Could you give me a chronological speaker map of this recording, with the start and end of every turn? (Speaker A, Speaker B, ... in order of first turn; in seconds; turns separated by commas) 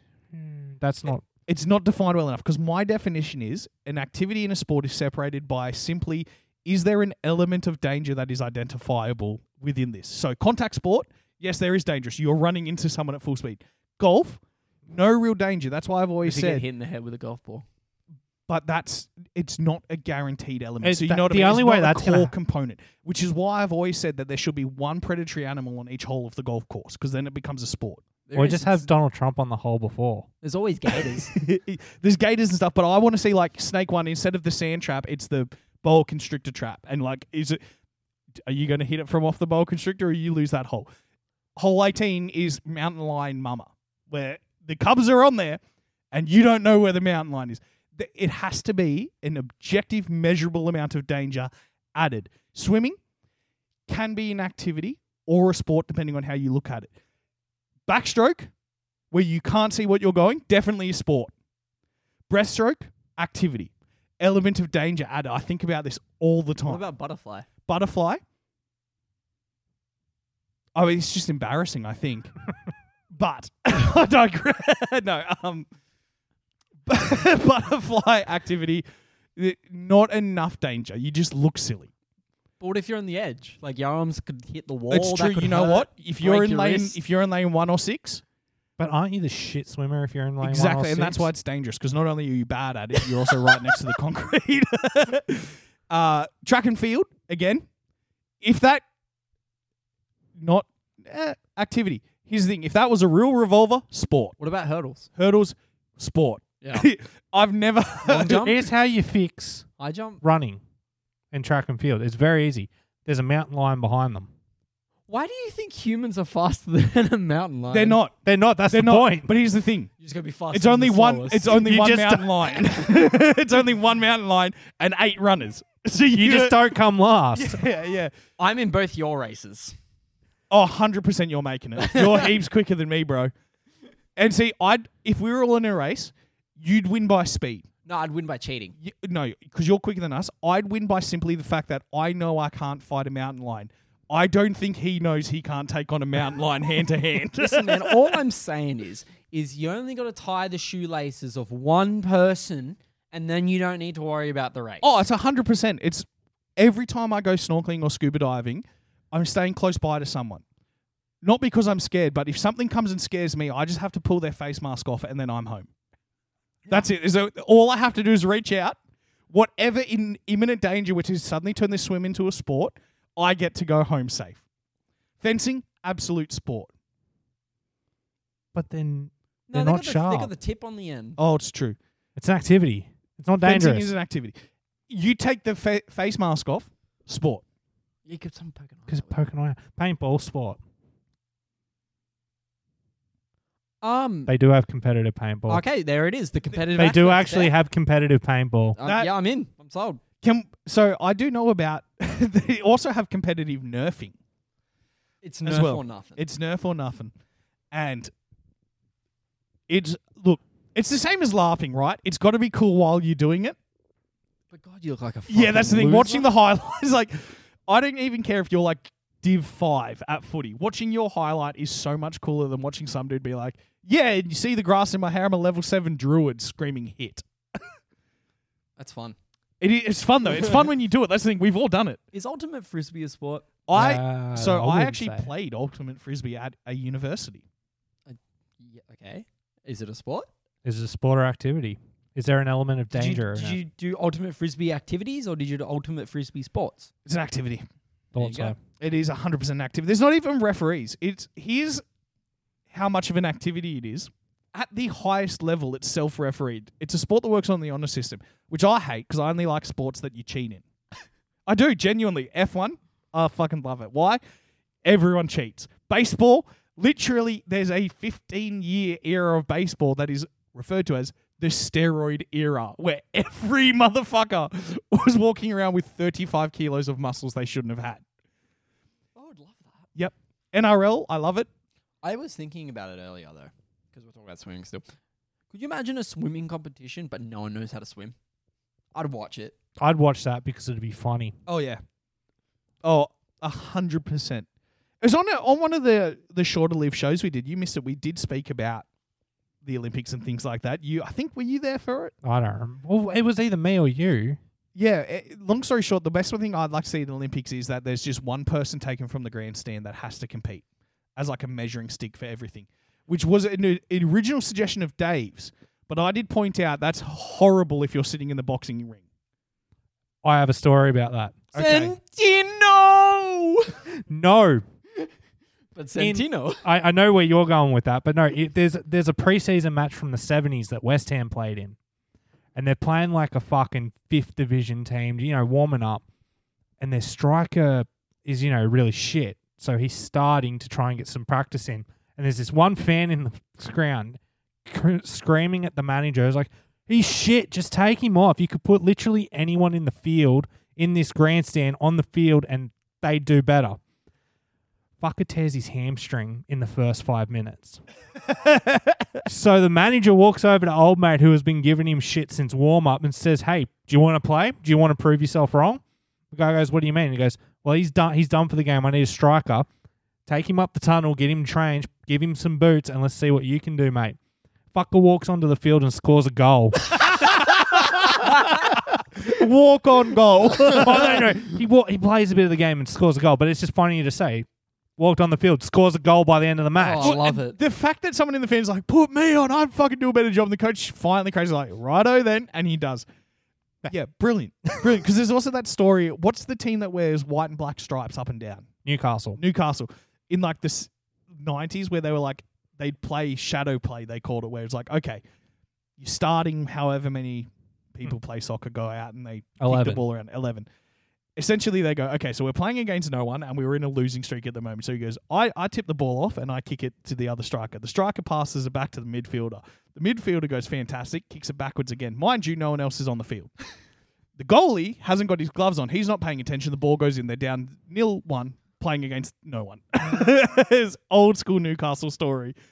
Speaker A: 0.3-1.2, Speaker B: 1.5-16.6, Speaker C: 16.2-17.6, Speaker B: 18.5-28.0, Speaker A: 20.8-22.3, Speaker C: 28.3-28.9, Speaker A: 28.4-30.3, Speaker C: 30.4-31.3, Speaker B: 31.2-37.6, Speaker B: 38.4-40.9, Speaker B: 41.6-45.6, Speaker B: 46.1-53.0, Speaker B: 53.9-56.9, Speaker B: 57.9-58.5, Speaker B: 59.1-61.3, Speaker B: 62.3-66.8, Speaker C: 66.7-67.5, Speaker B: 67.7-68.2, Speaker B: 70.8-72.3, Speaker B: 73.1-75.7, Speaker B: 76.9-78.8, Speaker B: 79.4-81.9, Speaker C: 82.6-87.0, Speaker B: 84.9-88.2, Speaker A: 88.8-91.3, Speaker B: 90.4-97.7, Speaker B: 98.4-98.8, Speaker B: 100.4-104.4, Speaker C: 104.4-105.1, Speaker B: 105.2-108.5, Speaker C: 108.0-108.7, Speaker A: 108.3-109.7, Speaker C: 109.8-110.2, Speaker A: 110.2-110.6, Speaker A: 111.3-114.3, Speaker C: 115.1-118.0, Speaker B: 117.7-118.2, Speaker A: 118.2-119.3, Speaker B: 118.7-119.9, Speaker C: 120.0-121.6, Speaker B: 120.5-126.6, Speaker A: 121.6-122.3, Speaker A: 126.2-127.6, Speaker B: 127.3-128.1, Speaker C: 128.4-129.8, Speaker B: 130.5-133.3, Speaker C: 131.8-132.3, Speaker B: 134.2-137.7, Speaker C: 137.9-138.8, Speaker B: 138.8-148.2, Speaker C: 147.4-154.9, Speaker B: 154.8-156.1, Speaker B: 156.6-160.4, Speaker B: 161.2-165.7, Speaker B: 166.7-168.8, Speaker B: 169.3-174.4, Speaker B: 175.2-176.7, Speaker A: 178.5-180.3, Speaker C: 179.5-181.2, Speaker B: 181.2-181.8, Speaker A: 182.2-183.9, Speaker B: 183.4-184.4, Speaker B: 184.9-187.4, Speaker C: 188.1-189.2, Speaker A: 188.9-190.6, Speaker C: 193.8-194.3, Speaker A: 194.3-195.6, Speaker C: 195.5-197.5, Speaker A: 196.7-198.8, Speaker C: 198.8-200.0, Speaker B: 198.8-199.1, Speaker B: 200.2-204.2, Speaker C: 205.2-206.2, Speaker B: 205.4-207.1, Speaker B: 207.7-208.1, Speaker B: 209.7-213.6, Speaker C: 214.5-216.3, Speaker B: 215.3-227.2, Speaker A: 215.8-216.1, Speaker C: 228.8-229.2, Speaker B: 229.6-232.0, Speaker C: 230.3-230.7, Speaker C: 232.1-233.5, Speaker B: 233.7-237.4, Speaker A: 233.7-235.3, Speaker C: 238.1-240.3, Speaker A: 240.6-243.6, Speaker C: 242.9-246.9, Speaker B: 247.1-247.7, Speaker A: 248.1-248.6, Speaker C: 248.2-248.6, Speaker B: 248.8-251.8, Speaker B: 252.7-260.6, Speaker B: 261.5-264.2, Speaker B: 264.8-278.0, Speaker C: 279.2-279.9, Speaker B: 279.9-281.5, Speaker C: 282.0-284.9, Speaker C: 285.5-288.1, Speaker C: 288.9-289.6, Speaker A: 289.8-291.4, Speaker B: 291.5-291.8, Speaker B: 292.8-294.5, Speaker B: 295.0-298.9, Speaker B: 299.6-302.1, Speaker A: 302.2-304.4, Speaker B: 304.8-310.6, Speaker B: 311.2-319.0, Speaker A: 320.2-321.9, Speaker C: 321.6-323.8, Speaker A: 324.1-324.6, Speaker C: 325.8-326.6, Speaker A: 326.0-331.8, Speaker A: 332.6-336.0, Speaker A: 336.8-353.8, Speaker A: 355.0-357.8, Speaker B: 358.5-358.8, Speaker A: 359.2-369.7, Speaker A: 370.3-374.2, Speaker A: 374.7-377.3, Speaker B: 377.1-381.3, Speaker C: 378.2-378.7, Speaker A: 380.6-384.5, Speaker A: 385.0-387.2, Speaker C: 386.8-387.6, Speaker B: 387.0-393.1, Speaker B: 393.9-398.7, Speaker A: 398.9-399.4, Speaker B: 399.4-405.2, Speaker B: 406.0-410.7, Speaker A: 409.6-410.0, Speaker B: 411.4-423.5, Speaker B: 424.4-432.6